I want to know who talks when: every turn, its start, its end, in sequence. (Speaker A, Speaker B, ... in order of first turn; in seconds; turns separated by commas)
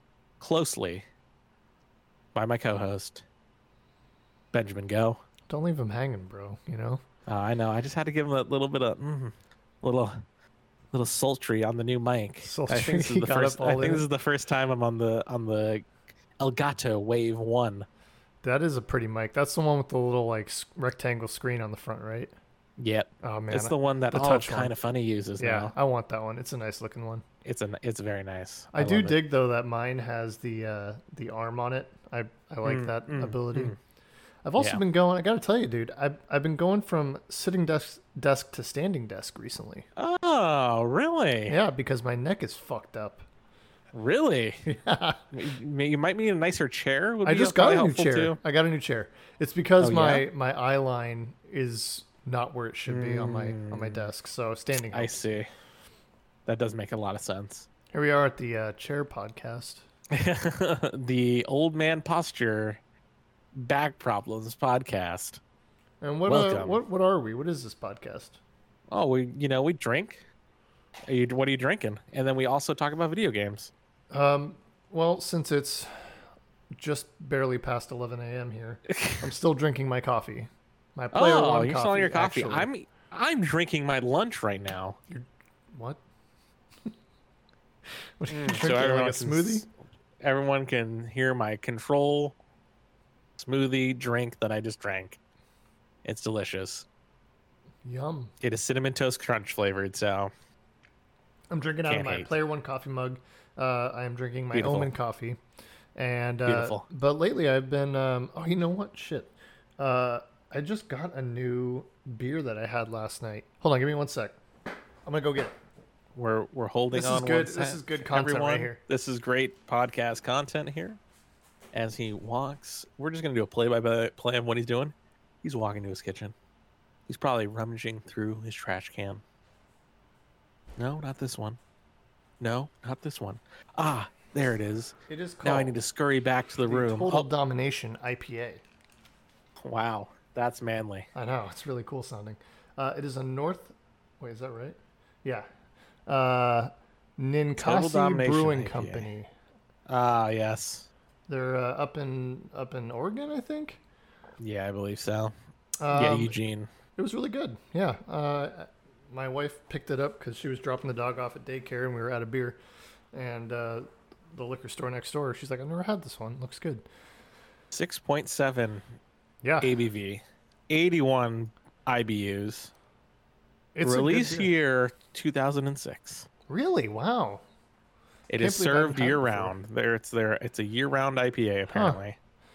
Speaker A: 0.4-1.1, Speaker A: 2.3-3.2, Speaker A: 4.5-5.2, Speaker B: 5.5-7.0, Speaker A: 7.3-10.2, Speaker A: 10.9-17.9, Speaker B: 12.4-14.1, Speaker B: 18.4-22.3, Speaker A: 22.8-25.7, Speaker B: 23.2-24.7, Speaker B: 25.4-27.2, Speaker A: 27.4-29.2, Speaker B: 28.7-33.7, Speaker A: 32.6-33.8, Speaker B: 34.5-39.9, Speaker A: 40.0-41.6, Speaker B: 41.5-43.2, Speaker A: 43.9-44.7, Speaker B: 44.7-45.3, Speaker A: 45.3-48.4, Speaker B: 47.2-55.2, Speaker A: 49.8-50.3, Speaker A: 52.9-54.1, Speaker A: 54.7-55.5, Speaker A: 56.5-57.7, Speaker B: 57.9-59.8, Speaker A: 60.1-62.8, Speaker A: 63.5-65.4, Speaker B: 66.0-68.4, Speaker A: 66.3-66.8, Speaker A: 68.9-70.2, Speaker A: 71.1-73.7, Speaker B: 74.1-76.0, Speaker B: 76.8-82.7, Speaker A: 78.9-79.3, Speaker A: 81.1-85.0, Speaker B: 85.1-86.0, Speaker B: 88.2-89.7, Speaker A: 88.3-89.7, Speaker A: 90.2-92.4, Speaker A: 93.4-95.2, Speaker A: 96.0-96.9, Speaker B: 97.8-98.3, Speaker A: 98.4-100.3, Speaker B: 101.5-105.4, Speaker A: 101.9-102.3, Speaker A: 104.5-104.9, Speaker B: 106.0-114.4, Speaker A: 106.5-106.8, Speaker B: 115.1-115.6, Speaker A: 116.2-121.0, Speaker B: 116.9-118.8, Speaker A: 121.7-126.3, Speaker A: 127.1-129.2, Speaker A: 130.8-131.6, Speaker A: 132.4-137.3, Speaker B: 135.1-135.8, Speaker B: 136.7-138.6, Speaker A: 139.6-141.1, Speaker B: 141.2-145.5, Speaker B: 146.1-149.3, Speaker A: 147.6-149.1, Speaker A: 149.9-150.9, Speaker B: 151.3-153.8, Speaker A: 154.4-155.3, Speaker B: 155.8-156.4, Speaker A: 155.9-156.7, Speaker B: 157.0-162.6, Speaker B: 163.1-166.8, Speaker A: 167.7-168.9, Speaker B: 169.4-169.8, Speaker A: 169.6-172.7, Speaker B: 173.8-174.5, Speaker A: 173.8-176.3, Speaker B: 176.5-177.4, Speaker A: 178.3-182.2, Speaker B: 178.4-179.5, Speaker B: 181.7-182.0